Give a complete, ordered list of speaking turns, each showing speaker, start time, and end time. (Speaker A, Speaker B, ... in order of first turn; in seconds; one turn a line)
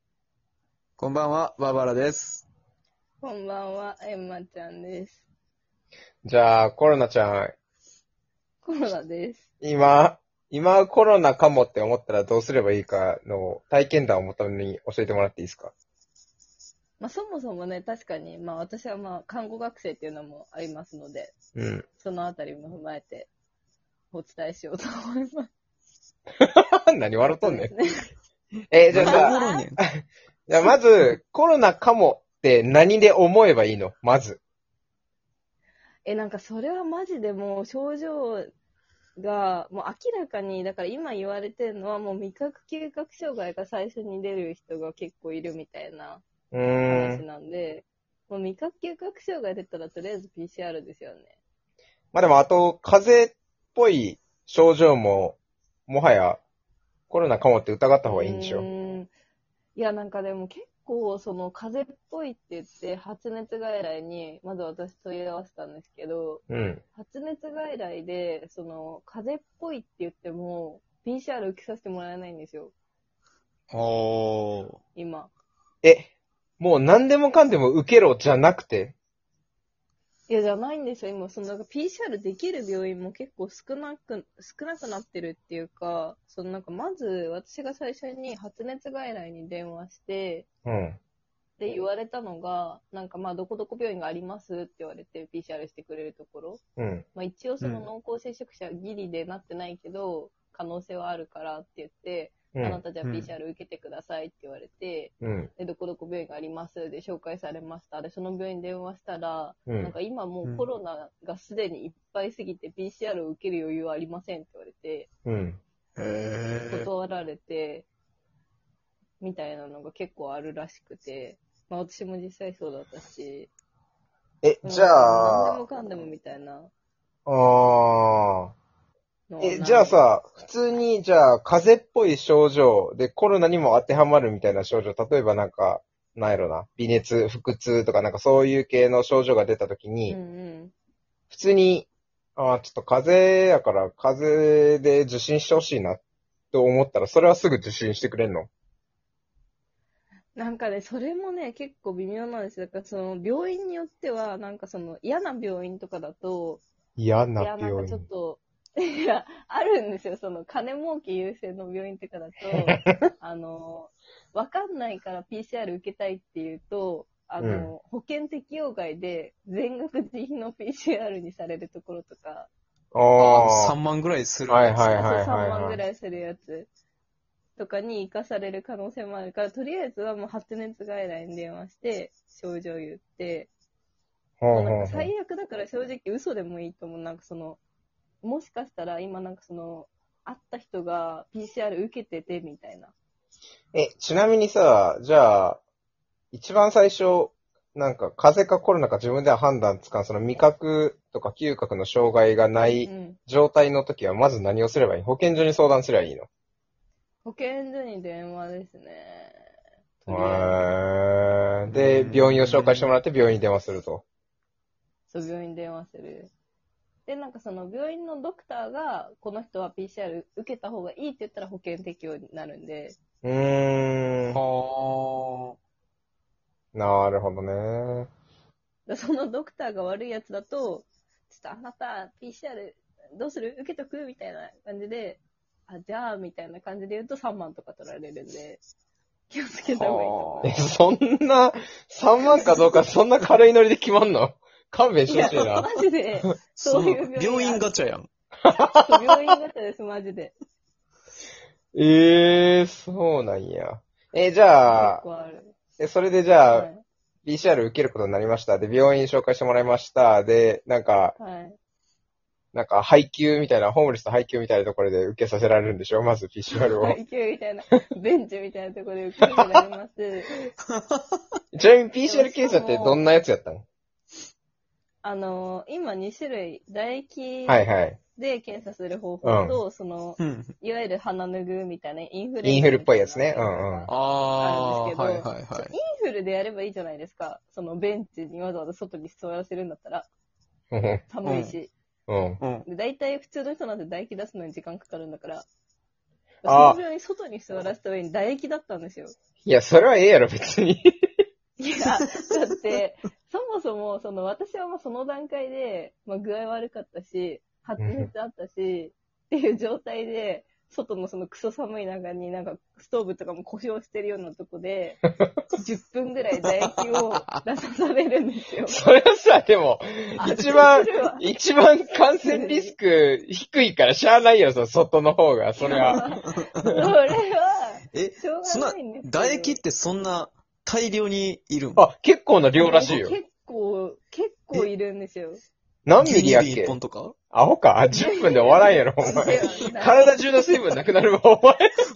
Speaker A: 1.0-2.5
Speaker B: 3.2-5.2
Speaker C: 6.2-7.5
Speaker B: 8.6-9.5
Speaker C: 9.6-15.7
Speaker B: 17.0-21.4
Speaker C: 21.6-21.9
Speaker B: 22.0-23.3
Speaker B: 24.1-25.5
Speaker C: 26.4-27.7
Speaker B: 27.2-27.8
Speaker C: 28.7-34.4
Speaker A: 28.9-29.8
Speaker B: 29.0-29.6
Speaker B: 36.0-38.5
Speaker B: 39.2-46.2
Speaker C: 46.5-47.2
Speaker B: 46.9-51.3
Speaker C: 52.1-56.4
Speaker C: 57.1-58.7
Speaker B: 58.0-59.1
Speaker B: 59.7-66.4
Speaker C: 66.5-66.8
Speaker B: 67.0-72.7
Speaker A: 73.7-74.8
Speaker B: 75.0-75.3
Speaker C: 75.8-78.9
Speaker B: 80.3-90.5
Speaker C: 90.6-91.0
Speaker B: 91.6-96.6
Speaker C: 96.8-97.0
Speaker B: 97.1-115.1
Speaker A: 97.6-97.9
Speaker C: 102.5-102.8
Speaker A: 103.0-103.3
Speaker C: 105.2-105.5
Speaker C: 109.7-109.9
Speaker C: 115.2-115.6
Speaker A: 116.0-116.9
Speaker B: 116.7-117.9
Speaker B: 119.2-123.5
Speaker C: 124.4-125.6
Speaker B: 124.6-126.7
Speaker C: 127.2-128.5
Speaker B: 129.3-130.0
Speaker C: 129.4-140.2
Speaker B: 140.1-140.7
Speaker C: 141.3-146.0
Speaker C: 146.5-148.5
Speaker B: 150.3-156.6
Speaker C: 157.0-158.0
Speaker B: 157.4-172.5
Speaker C: 162.7-163.0
Speaker C: 167.4-167.7
Speaker C: 172.9-173.8
Speaker A: 173.2-175.1
Speaker C: 174.5-175.8
Speaker B: 174.9-176.7
Speaker B: 177.6-183.5
Speaker C: 184.4-185.1
Speaker B: 184.5-187.6
Speaker B: 188.2-192.9
Speaker C: 193.7-195.6
Speaker C: 196.3-206.3
Speaker B: 202.6-203.2
Speaker B: 207.2-209.5
Speaker B: 210.0-210.6
Speaker C: 210.1-214.0
Speaker A: 211.7-212.9
Speaker B: 215.1-216.3
Speaker B: 217.1-223.0
Speaker C: 223.2-224.4
Speaker A: 224.3-225.6
Speaker C: 226.7-228.1
Speaker B: 228.9-238.6
Speaker B: 239.3-240.5
Speaker A: 239.7-240.5
Speaker C: 240.4-245.7
Speaker B: 245.1-247.6
Speaker A: 246.5-248.1
Speaker C: 248.4-249.1
Speaker B: 248.7-250.4
Speaker C: 251.7-255.0
Speaker B: 254.7-255.5
Speaker C: 255.8-256.7
Speaker B: 256.5-256.8
Speaker C: 257.2-261.1
Speaker B: 261.2-261.6
Speaker C: 262.5-267.0
Speaker B: 266.6-270.5
Speaker C: 269.2-269.6
Speaker A: 270.8-271.0
Speaker C: 271.5-273.6
Speaker B: 272.0-273.1
Speaker B: 275.0-290.1
Speaker C: 277.5-278.0
Speaker C: 279.2-279.6
Speaker A: 280.2-280.5
Speaker C: 282.4-283.9
Speaker A: 283.9-285.7
Speaker C: 290.7-291.0
Speaker B: 291.1-291.7
Speaker A: 291.2-291.6
Speaker C: 292.1-292.4
Speaker A: 292.4-292.6
Speaker B: 292.6-295.5
Speaker B: 296.4-299.1
Speaker C: 296.5-296.8
Speaker C: 299.4-301.1
Speaker B: 301.6-318.8
Speaker C: 307.8-308.1
Speaker A: 316.6-317.4
Speaker C: 318.7-326.0
Speaker B: 320.2-321.2
Speaker B: 322.2-322.8
Speaker B: 325.7-329.6
Speaker A: 325.7-326.8
Speaker A: 327.9-331.8
Speaker C: 331.8-333.2
Speaker B: 332.6-335.4
Speaker C: 335.9-336.8
Speaker A: 336.0-337.1
Speaker C: 337.3-341.6
Speaker B: 338.0-340.2